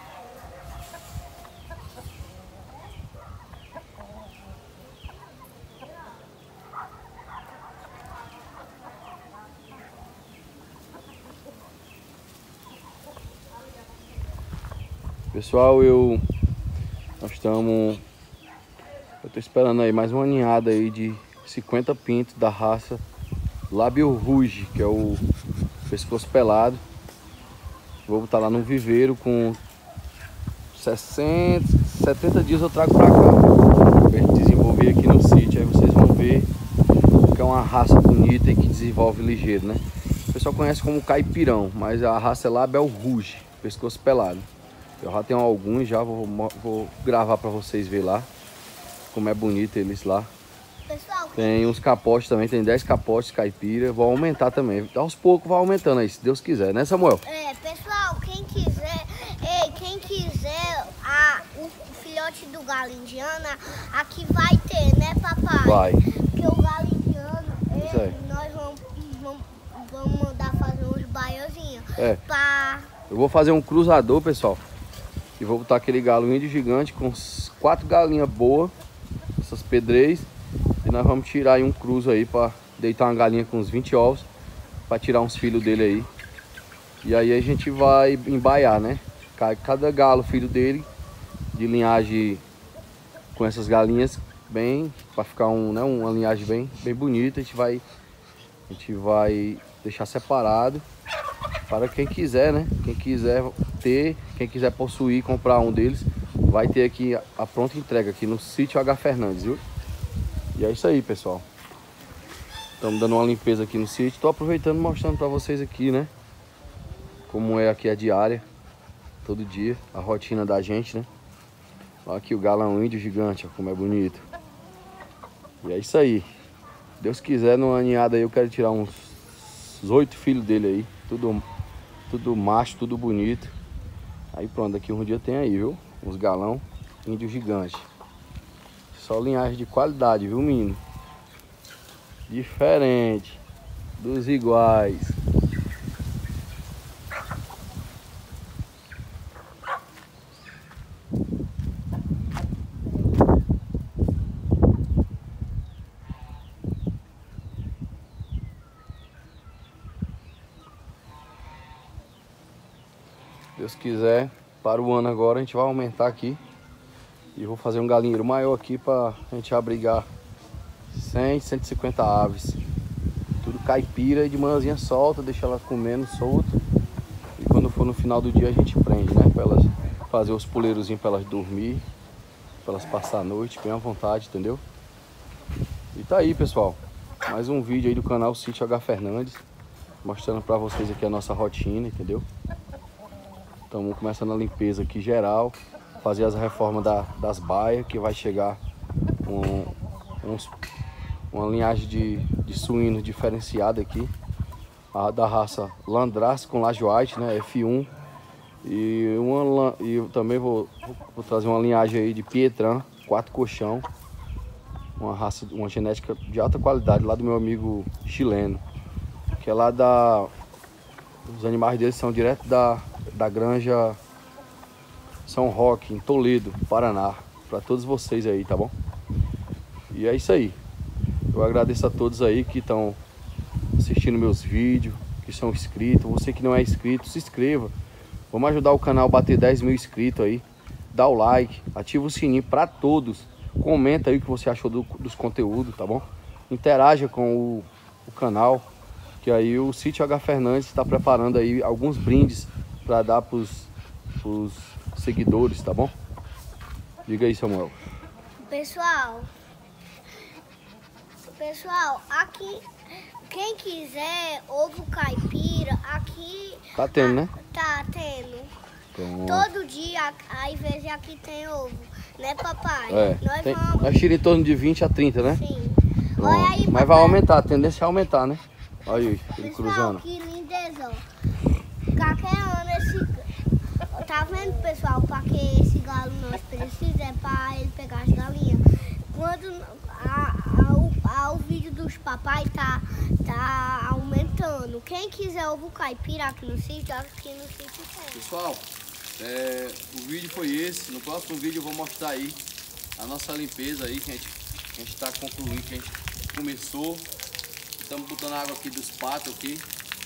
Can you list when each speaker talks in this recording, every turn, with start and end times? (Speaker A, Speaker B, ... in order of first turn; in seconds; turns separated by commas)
Speaker A: 15.3-16.2, Speaker A: 17.2-18.0, Speaker A: 19.2-23.0, Speaker A: 23.7-25.2, Speaker A: 25.9-26.8, Speaker A: 28.1-29.6, Speaker A: 30.7-33.5, Speaker A: 34.1-36.5, Speaker A: 37.2-44.5, Speaker A: 45.0-48.3, Speaker A: 49.1-50.3, Speaker B: 50.9-51.8, Speaker A: 51.4-57.2, Speaker B: 57.2-72.9, Speaker A: 65.6-66.0, Speaker A: 67.8-68.2, Speaker A: 73.1-74.6, Speaker A: 75.4-78.7, Speaker A: 79.4-80.3, Speaker A: 80.8-84.3, Speaker A: 84.9-86.1, Speaker A: 87.0-90.9, Speaker A: 91.5-92.4, Speaker A: 93.3-97.8, Speaker A: 98.7-100.8, Speaker A: 101.7-109.6, Speaker A: 110.5-111.5, Speaker A: 112.8-116.1, Speaker A: 117.3-118.5, Speaker A: 119.2-121.1, Speaker A: 122.0-124.2, Speaker A: 125.6-126.3, Speaker A: 127.0-131.4, Speaker A: 132.1-133.6, Speaker A: 134.3-137.9, Speaker A: 138.9-140.8, Speaker A: 142.3-143.4, Speaker A: 144.0-145.2, Speaker A: 163.6-166.4, Speaker A: 167.3-170.1, Speaker A: 170.9-172.6, Speaker A: 173.4-176.6, Speaker A: 177.4-181.8, Speaker A: 182.6-184.6, Speaker A: 185.9-189.4, Speaker A: 190.0-192.2, Speaker A: 193.7-198.6, Speaker A: 199.2-200.5, Speaker A: 201.3-204.1, Speaker A: 204.9-207.9, Speaker A: 208.6-213.9, Speaker A: 215.0-218.6, Speaker A: 219.4-220.3, Speaker A: 221.2-224.0, Speaker A: 225.3-228.7, Speaker A: 229.9-230.6, Speaker A: 231.3-233.0, Speaker A: 233.8-237.7, Speaker A: 238.3-248.7, Speaker A: 249.2-255.9, Speaker A: 257.1-257.8, Speaker B: 258.5-259.3, Speaker B: 261.3-268.6, Speaker A: 266.8-267.3, Speaker A: 268.9-269.5, Speaker B: 269.3-274.0, Speaker A: 272.9-275.4, Speaker B: 275.3-277.2, Speaker A: 276.2-280.0, Speaker B: 279.4-281.1, Speaker B: 281.9-283.3, Speaker B: 283.9-298.3, Speaker A: 298.1-302.4, Speaker A: 303.0-307.1, Speaker A: 307.8-309.7